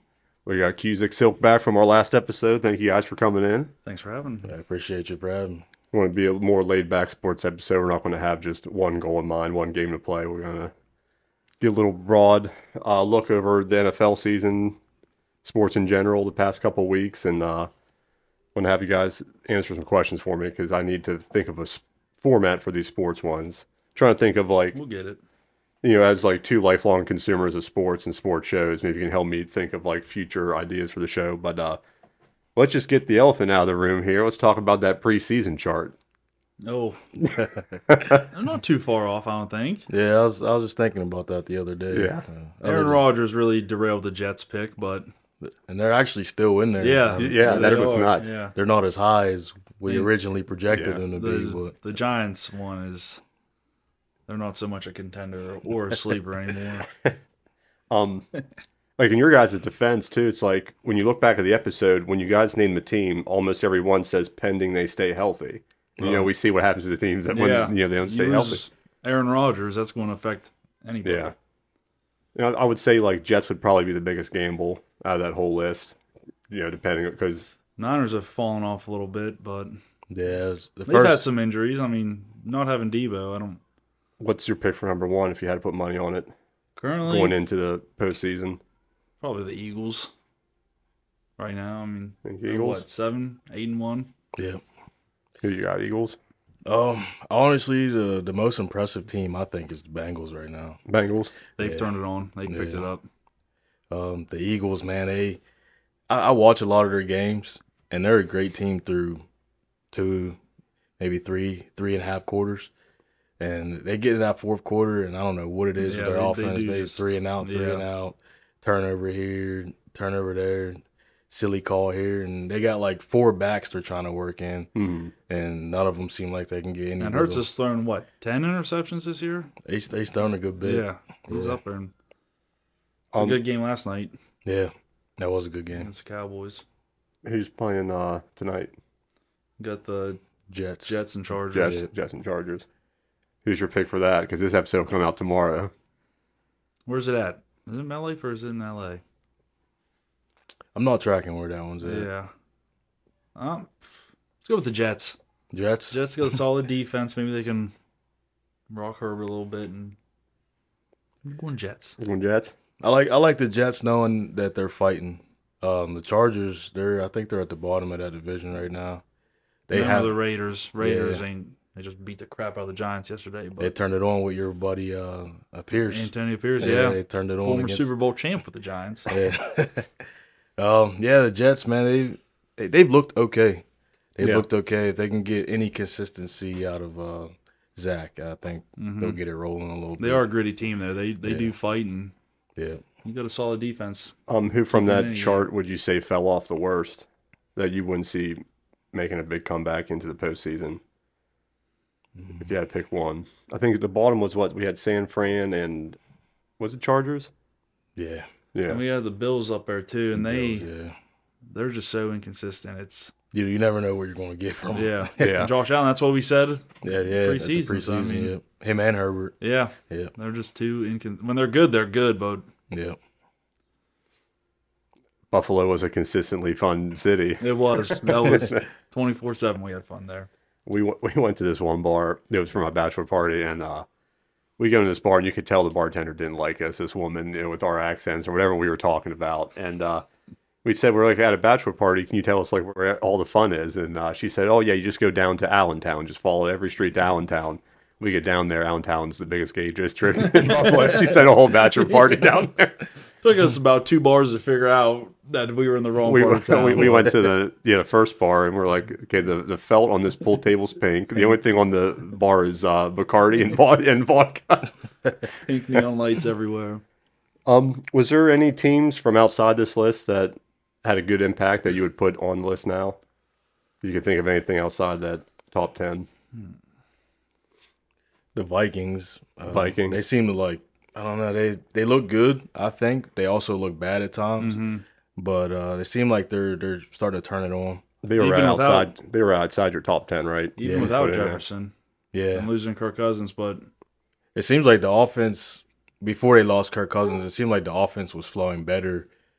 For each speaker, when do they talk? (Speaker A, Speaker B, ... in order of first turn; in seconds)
Speaker A: 0.5-3.7, 5.9-10.7, 11.6-14.8, 15.4-17.7, 18.6-24.8, 25.8-31.8, 32.6-36.0, 37.2-38.2, 41.9-42.3, 47.2-48.3, 50.7-51.0, 57.9-58.3, 59.0-68.6, 71.0-71.3, 72.3-76.0, 76.5-77.5, 84.2-86.3, 87.0-88.6, 92.2-92.8, 95.4-96.2, 100.9-101.3, 124.8-125.1, 133.1-133.4, 137.2-138.8, 141.5-142.7, 143.4-145.7, 162.0-162.6, 194.3-198.4, 198.9-200.8, 202.4-206.0, 206.6-207.3, 208.5-208.8, 215.2-215.5, 225.3-228.6, 230.7-233.9, 234.6-240.1, 240.6-252.9, 256.0-264.7, 267.5-273.0, 273.8-276.1, 279.5-280.0, 288.0-291.4
Speaker B: 3.9-4.5, 24.8-25.2, 36.6-37.0, 38.1-39.9, 42.6-45.1, 46.8-48.5, 49.9-50.1, 51.1-53.2, 54.3-56.9, 67.3-71.3, 77.8-79.8, 80.9-83.6, 86.8-87.4, 89.2-90.1, 91.4-94.1, 101.6-103.0, 115.8-117.8, 127.0-129.5, 130.6-131.9, 133.2-134.2, 135.7-136.6, 139.6-140.2, 140.9-141.8, 146.9-149.0, 151.8-152.3, 153.3-155.2, 155.9-157.7, 158.7-160.0, 161.2-162.0, 169.7-173.7, 175.9-179.1, 188.8-189.2, 190.0-192.1, 193.0-194.2, 194.7-195.4, 208.7-210.7, 211.5-213.1, 214.8-218.3, 219.4-222.5, 227.4-230.3, 250.5-251.0, 253.2-257.2, 265.4-266.8, 284.4-284.8, 288.2-288.9, 290.6-291.7, 292.3-293.7
Speaker C: 4.5-5.7, 39.9-43.0, 45.4-51.8, 66.0-66.3, 80.1-81.2, 94.4-94.6, 96.7-100.8, 101.6-101.9, 102.5-102.9, 103.9-105.4, 106.1-109.2, 109.9-110.4, 111.0-112.7, 113.4-124.7, 125.3-127.5, 129.7-131.6, 134.4-135.9, 140.5-141.0, 141.6-141.9, 150.8-152.1, 155.5-156.0, 162.8-169.0, 169.7-170.2, 170.8-171.2, 173.6-177.9, 179.1-180.0, 180.6-183.6, 184.2-190.2, 191.2-191.5, 192.6-192.8, 202.2-202.5, 208.0-208.3, 210.2-210.9, 213.3-215.3, 216.8-219.3, 219.9-220.1, 222.7-223.0, 278.4-284.6, 285.2-287.8, 290.6-291.0, 292.1-292.5, 294.4-299.1